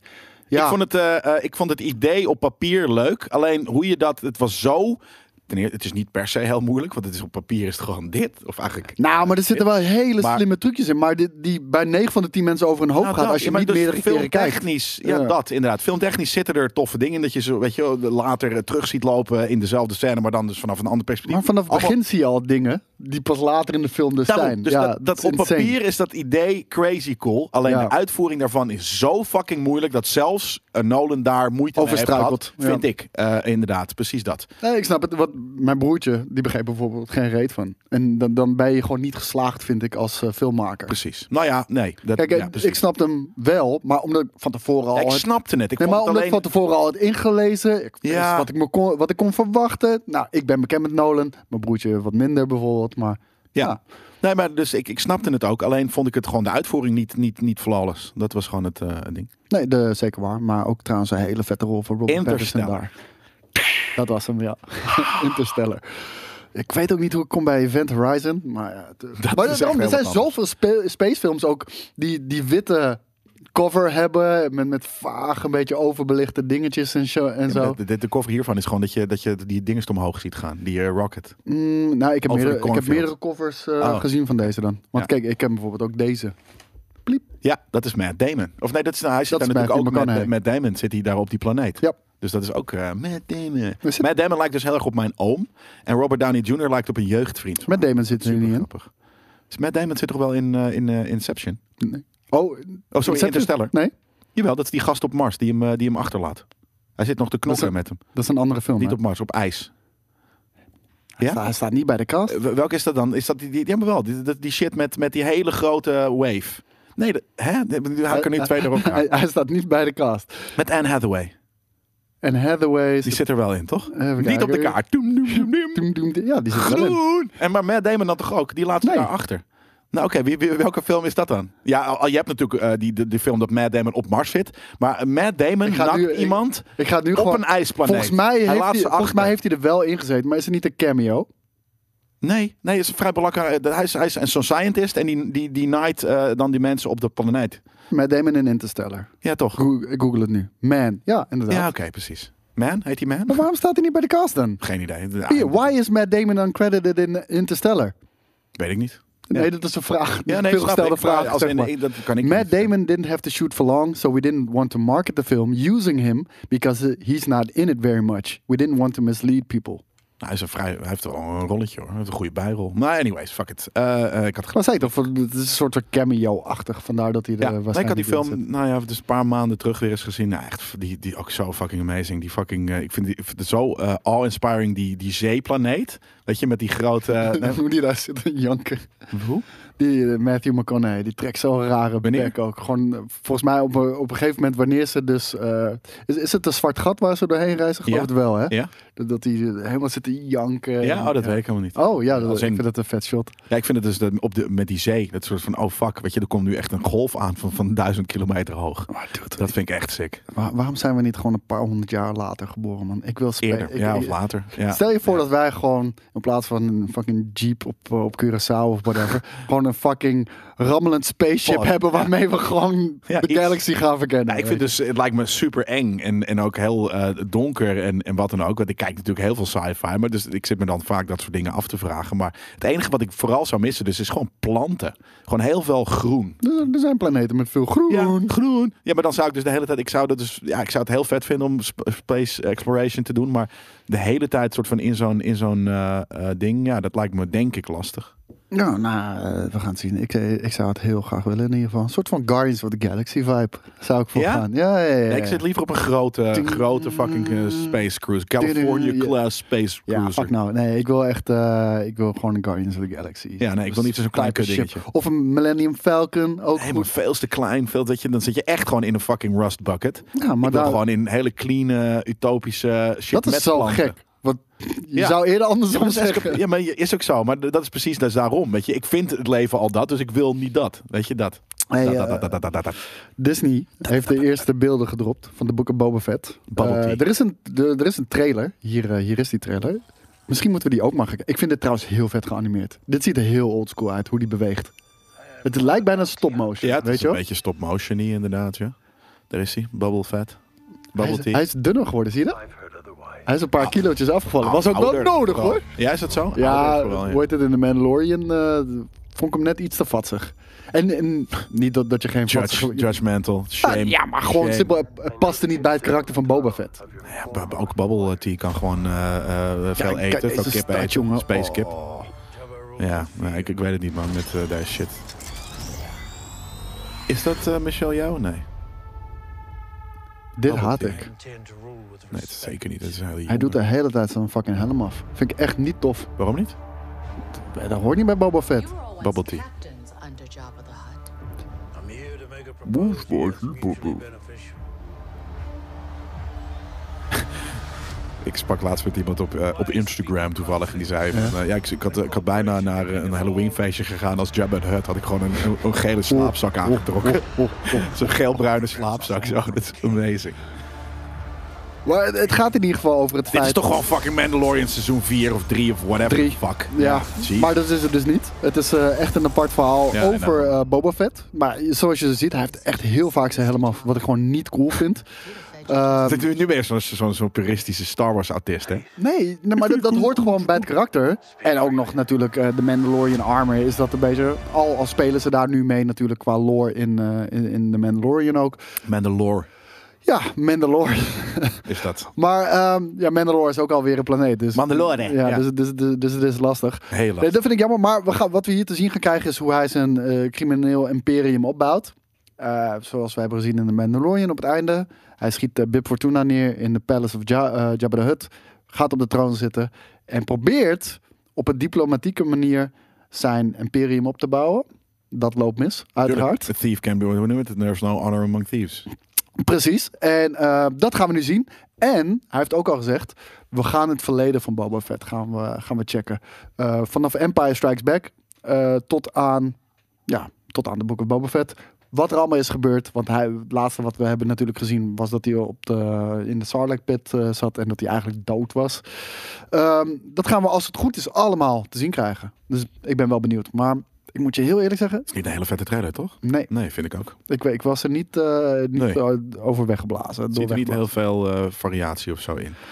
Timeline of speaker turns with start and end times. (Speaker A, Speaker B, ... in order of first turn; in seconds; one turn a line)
Speaker A: 0.5-0.8
Speaker B: 0.5-10.4
Speaker A: 9.0-15.3
Speaker B: 13.0-21.9
Speaker A: 21.3-25.8
Speaker B: 24.3-34.5
Speaker A: 27.7-27.9
Speaker A: 31.8-32.8
Speaker A: 34.6-41.0
Speaker B: 40.9-42.8
Speaker A: 42.2-53.8
Speaker B: 44.9-46.4
Speaker B: 48.0-48.5
Speaker B: 53.5-59.3
Speaker A: 59.5-62.9
Speaker B: 62.1-62.8
Speaker A: 63.9-65.8
Speaker A: 66.5-73.0
Speaker B: 69.2-70.3
Speaker A: 73.5-77.8
Speaker B: 77.5-81.3
Speaker A: 81.5-86.3
Speaker B: 82.3-83.1
Speaker B: 83.8-84.1
Speaker B: 87.4-98.9
Speaker A: 89.3-90.3
Speaker A: 97.7-98.7
Speaker B: 99.5-101.6
Speaker A: 101.8-103.9
Speaker B: 102.9-103.7
Speaker B: 104.3-106.4
Speaker B: 107.0-108.0
Speaker A: 107.5-109.0
Speaker B: 108.8-109.7
Speaker A: 111.2-112.4
Speaker B: 112.3-119.1
Speaker A: 118.1-120.5
Speaker B: 120.5-121.3
Speaker A: 122.2-123.2
Speaker B: 123.0-125.8
Speaker A: 123.9-124.8
Speaker A: 125.3-127.0
Speaker B: 126.5-139.3
Speaker A: 128.8-129.1
Speaker A: 135.6-141.3
Speaker B: 142.2-147.6
Speaker A: 147.9-151.7
Speaker B: 149.2-149.6
Speaker B: 151.5-153.4
Speaker A: 153.3-154.6
Speaker B: 154.6-155.7
Speaker A: 155.3-157.9
Speaker B: 158.6-159.5
Speaker A: 159.3-169.8
Speaker B: 160.3-162.7
Speaker B: 170.2-174.8
Speaker A: 174.5-178.4
Speaker B: 177.4-187.6
Speaker A: 187.2-188.9
Speaker B: 189.1-189.4
Speaker A: 189.8-203.3
Speaker B: 192.0-192.3
Speaker B: 197.8-198.7
Speaker B: 200.8-202.6
Speaker B: 203.5-210.2
Speaker A: 208.9-209.5
Speaker A: 210.3-224.7
Speaker B: 213.4-215.2
Speaker B: 221.4-222.1
Speaker B: 223.1-223.6
Speaker B: 224.3-236.4
Speaker A: 236.4-238.3
Speaker B: 237.9-248.1
Speaker A: 248.5-255.4
Speaker B: 254.1-254.4
Speaker B: 255.1-260.3
Speaker A: 256.3-257.8
Speaker A: 258.4-259.2
Speaker A: 259.9-266.9
Speaker B: 263.4-264.8
Speaker B: 266.5-273.9
Speaker A: 270.1-270.8
Speaker A: 273.1-276.4
Speaker B: 275.7-282.8
Speaker A: 281.7-282.4
Speaker A: 283.2-294.7
Speaker B: 286.5-287.0
Speaker A: 295.4-297.2
Speaker B: 296.6-298.7
Speaker B: 299.3-300.4
Speaker B: 300.9-301.4
Speaker A: 300.9-302.4
Speaker A: 303.2-305.6
Speaker B: 304.4-307.2
Speaker A: 306.3-312.9
Speaker B: 312.2-314.8
Speaker A: 313.6-316.8
Speaker B: 317.0-321.8
Speaker C: 317.3-317.6
Speaker A: 319.8-322.1
Speaker C: 322.3-323.5
Speaker B: 322.8-325.0
Speaker B: 327.1-328.4
Speaker A: 330.4-331.1
Speaker B: 330.5-331.0
Speaker C: 330.8-332.9
Speaker B: 332.1-333.6
Speaker A: 333.3-336.1
Speaker B: 336.2-336.6
Speaker A: 337.3-338.7
Speaker D: 338.6-341.1
Speaker B: 339.0-339.5
Speaker C: 341.7-344.6
Speaker A: 342.6-344.0
Speaker B: 348.2-360.4
Speaker C: 349.5-351.2
Speaker A: 351.1-351.4
Speaker C: 351.8-353.6
Speaker A: 356.1-358.0
Speaker A: 361.8-363.7
Speaker B: 363.3-367.5
Speaker A: 366.1-375.1
Speaker B: 369.9-370.5
Speaker D: 372.7-374.0
Speaker D: 375.3-376.3
Speaker A: 375.6-376.3
Speaker B: 376.0-378.9
Speaker A: 378.9-388.6
Speaker B: 379.6-380.6
Speaker B: 388.8-389.5
Speaker A: 390.0-416.5
Speaker B: 391.6-392.1
Speaker B: 394.5-395.4
Speaker B: 396.9-397.3
Speaker B: 416.0-418.8
Speaker A: 419.4-429.6
Speaker A: 430.1-438.8
Speaker A: 439.5-445.1
Speaker B: 445.1-447.1
Speaker A: 446.2-446.5
Speaker A: 447.3-450.8
Speaker B: 448.7-449.0
Speaker B: 450.3-452.6